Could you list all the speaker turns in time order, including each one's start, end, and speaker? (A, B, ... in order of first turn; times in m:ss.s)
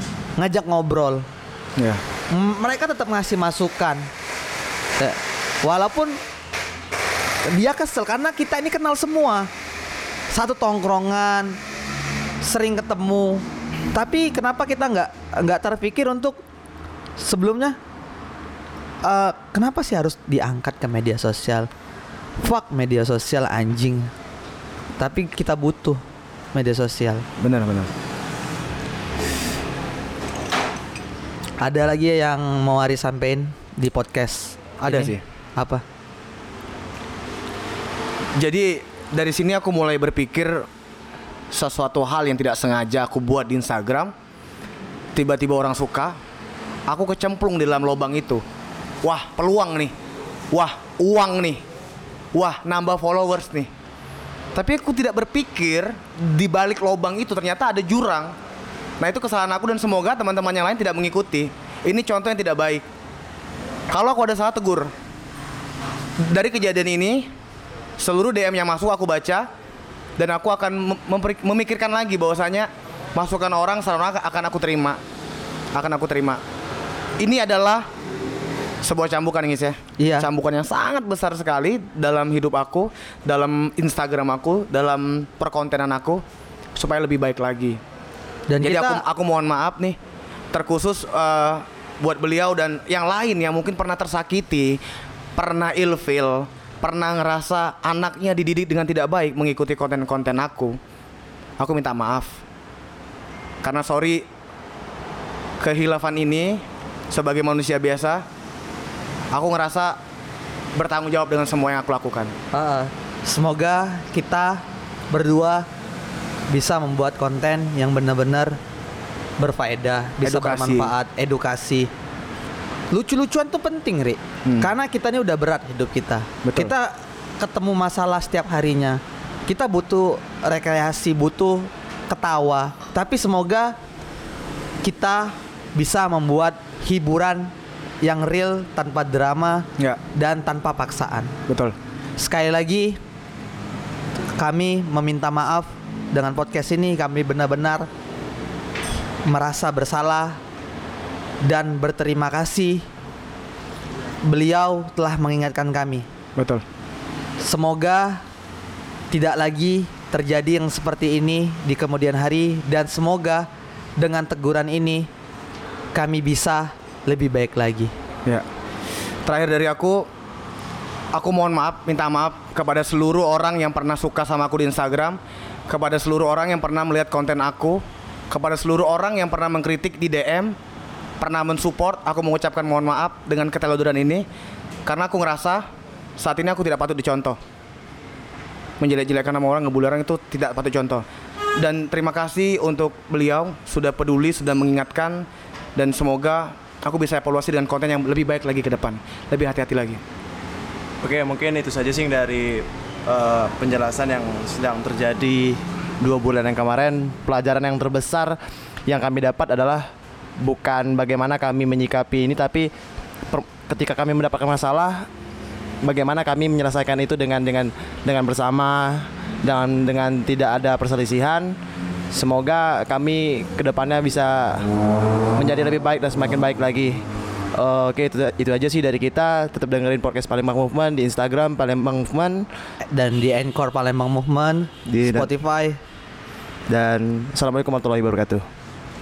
0:00.4-0:01.3 A
0:02.3-0:04.1 A
0:05.0-0:06.2 A
0:07.5-0:09.5 A
0:10.3-0:11.6 A
0:12.4-0:16.4 A
0:17.2-0:17.8 A
0:19.0-0:21.7 A
0:22.4-0:24.1 A
0:25.0-0:26.0 A
0:26.5-0:27.3 A
0:27.4-0:27.9 B
0:31.6-0:35.8 A
0:34.8-0:35.2 B
0:38.4-0:40.7 B
0:41.5-0:44.1 B
0:45.2-0:46.2 B
0:46.9-0:48.4 B
0:49.0-0:49.9 B
0:50.5-0:51.6 B
0:52.3-0:53.7 B
0:54.6-0:58.3 B
0:59.0-1:02.8 B
1:03.9-1:04.9 B
1:06.2-1:07.3 B
1:08.0-1:09.5 B
1:10.2-1:15.0 B
1:15.8-1:16.4 B
1:17.2-1:17.9 B
1:18.8-1:26.2 B
1:20.0-1:20.3 A
1:26.8-1:27.8 B
1:28.5-1:29.0 A
1:28.6-1:30.0 B
1:30.5-1:34.8 B
1:35.4-1:40.8 B
1:41.6-1:42.4 B
1:43.6-1:44.2 B
1:45.6-1:48.2 B
1:49.3-1:50.0 B
1:50.8-1:52.3 B
1:52.5-1:55.7 A
1:56.5-1:58.6 A
1:59.4-2:01.9 A
2:00.2-2:00.9 B
2:02.9-2:13.8 A
2:04.4-2:04.7 B
2:06.4-2:06.7 B
2:14.8-2:21.3 A
2:21.5-2:21.8 B
2:22.2-2:23.0 A
2:24.4-2:27.9 A
2:29.3-2:30.4 A
2:31.4-2:32.8 A
2:34.2-2:36.1 A
2:36.4-2:36.6 B
2:37.4-2:38.2 A
2:39.1-2:43.5 A
2:44.0-2:45.1 A
2:45.9-2:47.9 A
2:49.2-2:50.1 B
2:51.1-3:00.6 B
3:01.2-3:04.2 B
3:04.9-3:05.7 B
3:06.2-3:07.4 B
3:08.8-3:11.0 B
3:11.6-3:20.0 B
3:21.0-3:28.4 C
3:28.9-3:32.7 C
3:33.3-3:35.1 C
3:35.8-3:41.6 C
3:42.1-3:44.6 C
3:45.4-3:47.0 C
3:47.5-3:52.5 C
3:52.9-3:55.8 A
3:54.9-3:55.3 C
3:56.7-3:58.5 C